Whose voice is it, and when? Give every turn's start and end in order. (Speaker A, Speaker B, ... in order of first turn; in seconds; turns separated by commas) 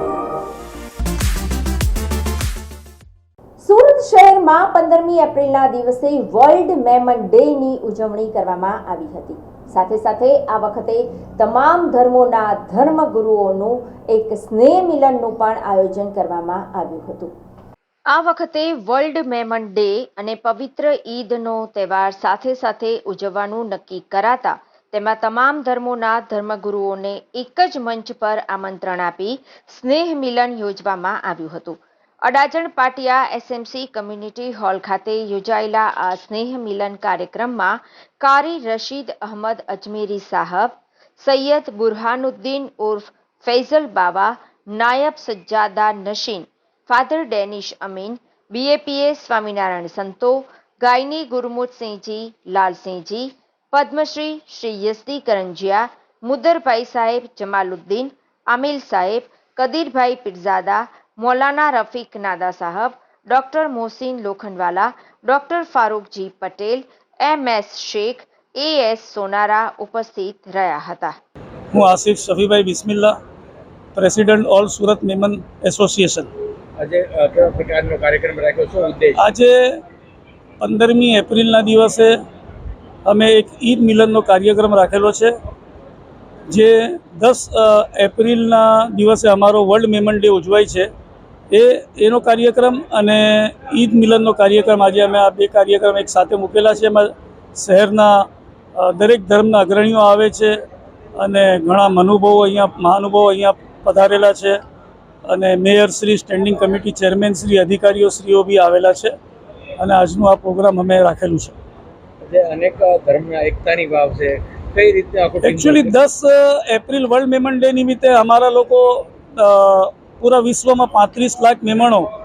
Speaker A: 3.6-17.3, Speaker A: 18.1-71.2, Speaker B: 71.7-73.2, Speaker B: 73.9-76.3, Speaker C: 76.8-79.2, Speaker B: 79.2-79.8, Speaker B: 80.6-82.2, Speaker B: 83.0-85.3, Speaker B: 86.5-90.9, Speaker B: 91.5-100.6, Speaker B: 101.2-104.6, Speaker B: 105.3-109.1, Speaker B: 109.8-111.5, Speaker C: 112.2-115.9, Speaker B: 115.4-122.1